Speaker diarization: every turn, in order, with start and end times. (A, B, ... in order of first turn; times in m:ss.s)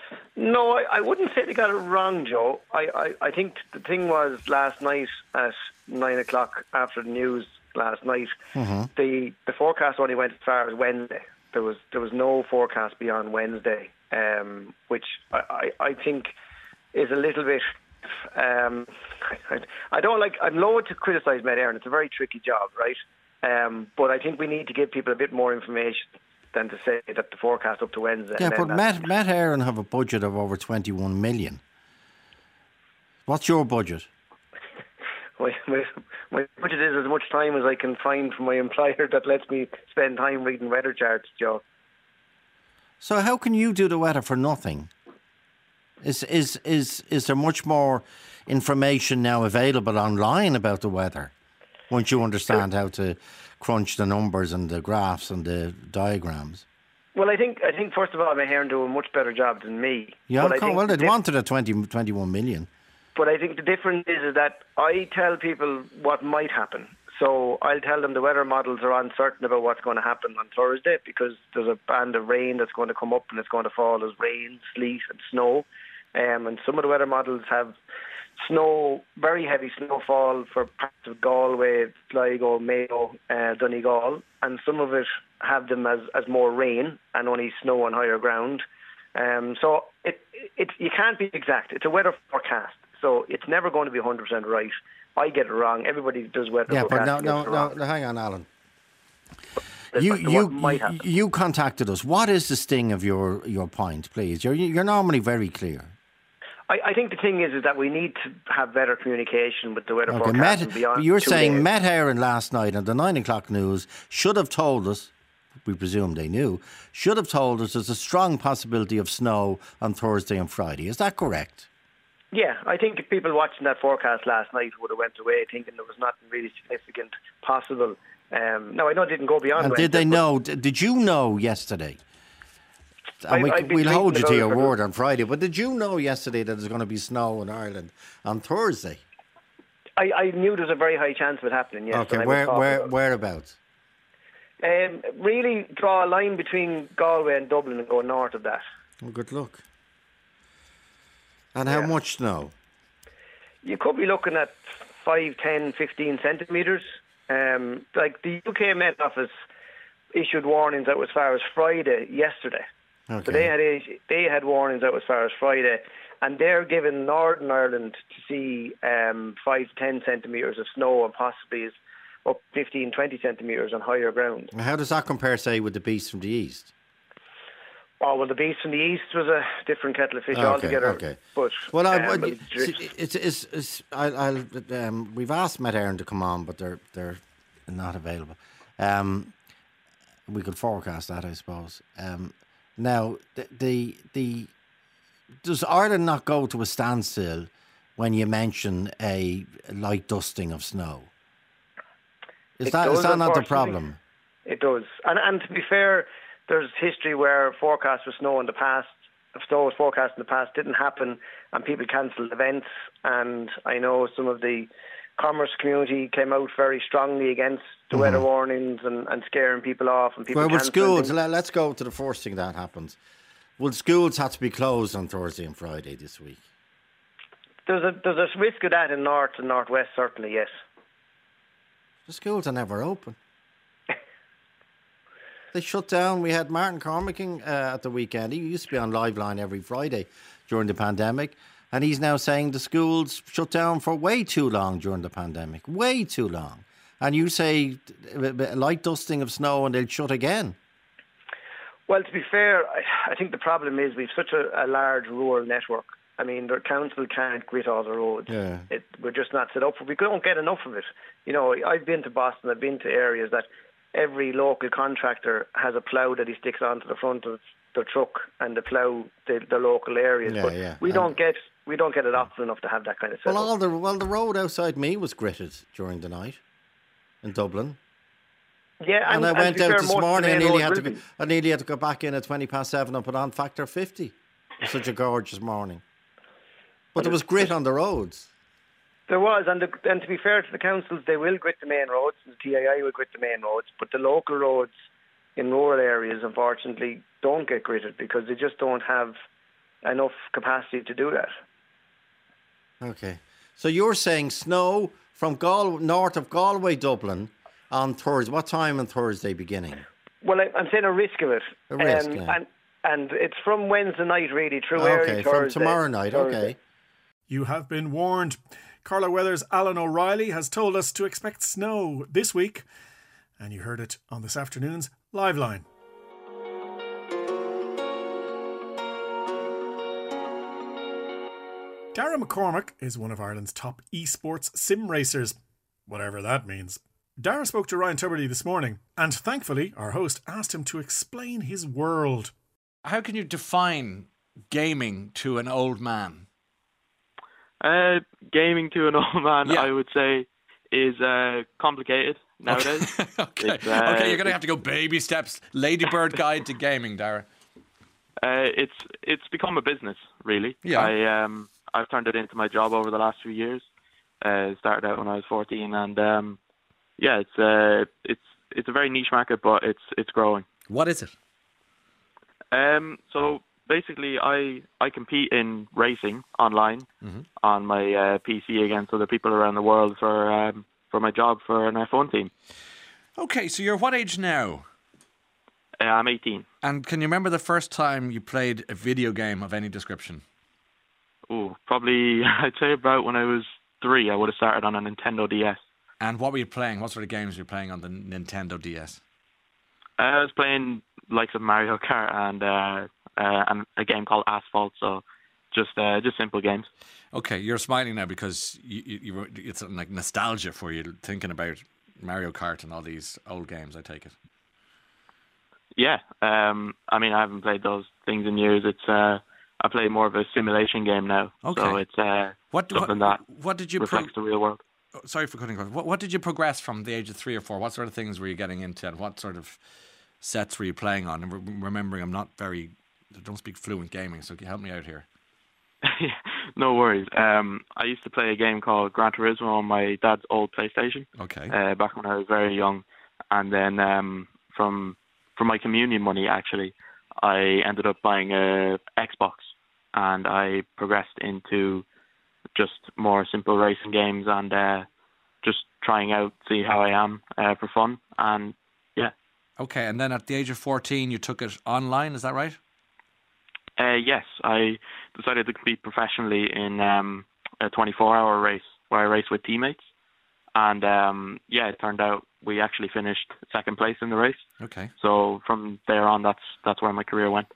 0:00.4-0:08.4 A
0:08.5-0:08.9 B
0:09.0-0:16.3 A
0:16.9-0:28.9 A
0:28.4-0:31.6 B
0:33.2-0:34.1 B
0:35.4-0:41.6 A
0:43.0-0:44.9 B
0:46.0-0:51.3 B
0:51.9-0:56.6 B
0:57.1-1:01.1 A
1:00.3-1:02.7 B
1:03.1-1:17.7 A
1:18.4-1:28.6 A
1:29.2-1:37.7 A
1:36.7-1:38.5 B
1:39.9-1:41.0 A
1:40.0-1:45.9 B
1:46.7-1:51.6 A
1:50.1-1:55.1 B
1:55.6-2:01.7 B
2:02.3-2:10.2 A
2:09.5-2:12.0 B
2:13.2-2:19.0 B
2:13.3-2:14.7 A
2:20.0-2:22.9 A
2:21.9-2:23.6 B
2:24.6-2:28.6 A
2:29.0-2:29.6 B
2:31.5-2:32.5 B
2:33.6-2:39.3 A
2:40.1-2:42.6 A
2:43.1-2:43.5 B
2:43.2-2:54.5 A
2:54.5-2:56.7 B
2:58.0-3:02.8 A
3:00.3-3:09.3 B
3:10.3-3:14.5 B
3:15.4-3:21.1 B
3:22.6-3:24.0 B
3:22.6-3:23.8 A
3:24.5-3:41.1 A
3:37.9-3:38.2 B
3:40.3-3:43.0 B
3:43.6-3:46.4 B
3:47.6-3:50.5 A
3:52.0-3:53.2 B
3:55.5-4:10.6 B
4:11.9-4:33.5 A
4:18.3-4:18.7 B
4:30.2-4:31.1 B
4:33.2-4:36.4 B
4:37.2-4:37.8 B
4:38.8-4:41.0 A
4:39.1-4:45.8 B
4:46.9-4:48.3 B
4:47.0-4:47.5 A
4:49.1-4:54.7 A
4:55.4-4:59.1 A
4:59.8-5:01.3 A
5:02.8-5:09.8 B
5:10.2-5:16.5 A
5:11.7-5:12.4 B
5:14.7-5:16.6 B
5:17.3-5:22.6 C
5:23.4-5:25.6 C
5:31.9-5:35.4 C
5:35.9-5:42.3 C
5:42.8-5:46.2 D
5:47.6-5:54.4 E
5:52.5-5:57.3 D
5:58.2-6:03.6 E
6:00.6-6:00.9 D
6:04.2-6:06.4 E
6:07.0-6:10.4 E
6:10.7-6:11.1 D
6:12.5-6:16.9 E
6:17.4-6:22.3 E
6:23.2-6:24.6 D
6:25.8-6:26.4 E
6:26.6-6:30.2 D
6:31.3-6:35.6 E
6:36.0-6:39.0 D
6:40.0-6:46.7 E
6:47.1-6:54.1 D
6:55.8-7:03.2 E
7:01.4-7:01.8 D
7:02.5-7:04.1 D
7:03.8-7:04.6 E
7:05.0-7:09.6 D
7:10.2-7:15.0 D
7:15.8-7:31.8 E
7:21.2-7:21.5 D
7:32.6-7:34.9 E
7:35.4-7:39.1 E
7:39.6-7:42.6 D
7:43.8-7:49.8 E
7:50.5-7:54.4 E
7:54.6-7:54.9 D
7:55.0-7:57.5 E